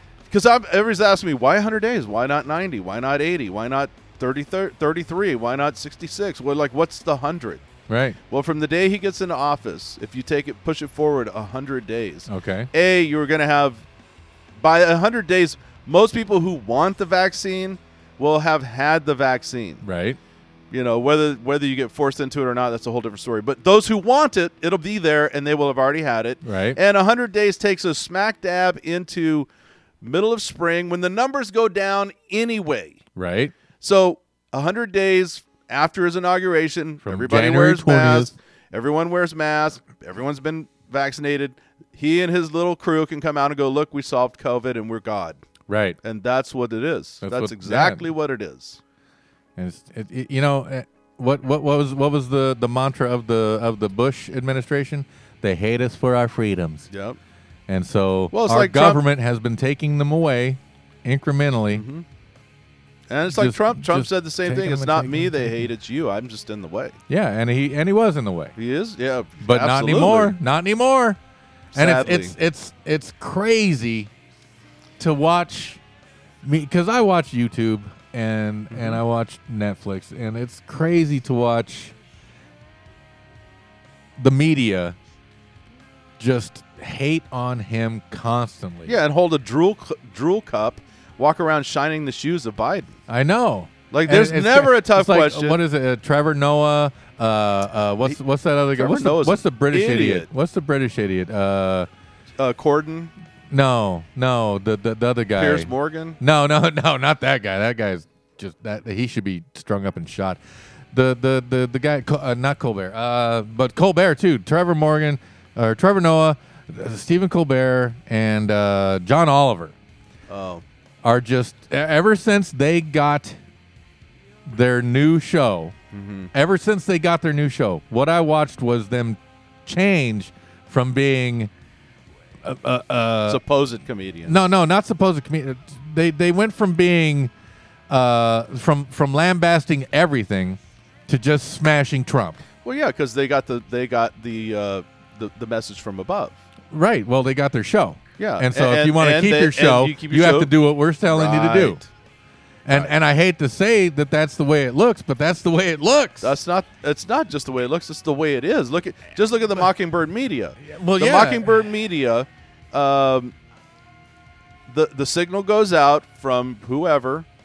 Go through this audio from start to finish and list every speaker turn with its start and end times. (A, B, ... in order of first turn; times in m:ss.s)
0:00.3-0:07.6 A
0:07.9-0:08.2 B
0:08.3-0:13.8 A
0:12.3-0:12.7 B
0:14.6-0:19.8 A
0:19.8-0:20.2 B
0:20.7-0:29.5 A
0:26.4-0:26.8 B
0:30.0-0:33.0 A
0:33.2-0:33.5 B
0:33.8-0:45.4 A
0:37.0-0:38.3 B
0:45.7-0:46.0 B
0:46.0-0:48.8 A
0:47.2-0:48.1 B
0:49.6-0:56.9 B
0:56.9-0:57.2 A
0:57.7-1:01.8 B
0:58.3-0:59.0 A
1:01.7-1:02.0 A
1:03.1-1:07.0 A
1:03.3-1:05.7 B
1:07.1-1:08.6 B
1:08.6-1:10.4 A
1:09.4-1:11.2 B
1:11.7-1:12.3 A
1:11.7-1:14.1 B
1:15.0-1:15.8 B
1:16.4-1:21.9 B
1:18.7-1:19.0 A
1:24.2-1:25.0 B
1:26.2-1:29.0 B
1:28.9-1:33.0 A
1:33.1-1:41.9 B
1:33.9-1:35.6 A
1:38.7-1:40.3 A
1:42.4-1:43.1 A
1:43.5-1:50.4 B
1:45.4-1:46.2 A
1:50.9-1:59.8 B
2:00.3-2:00.6 A
2:01.0-2:03.4 B
2:04.5-2:05.8 B
2:05.9-2:06.3 A
2:06.3-2:11.5 B
2:12.4-2:13.4 B
2:13.3-2:14.4 A
2:14.3-2:17.3 B
2:17.9-2:22.4 B
2:22.6-2:26.4 A
2:26.7-2:31.8 B
2:28.2-2:30.5 A
2:31.1-2:31.9 A
2:32.6-2:36.4 B
2:36.2-2:43.3 A
2:40.6-2:41.6 B
2:44.7-2:47.3 A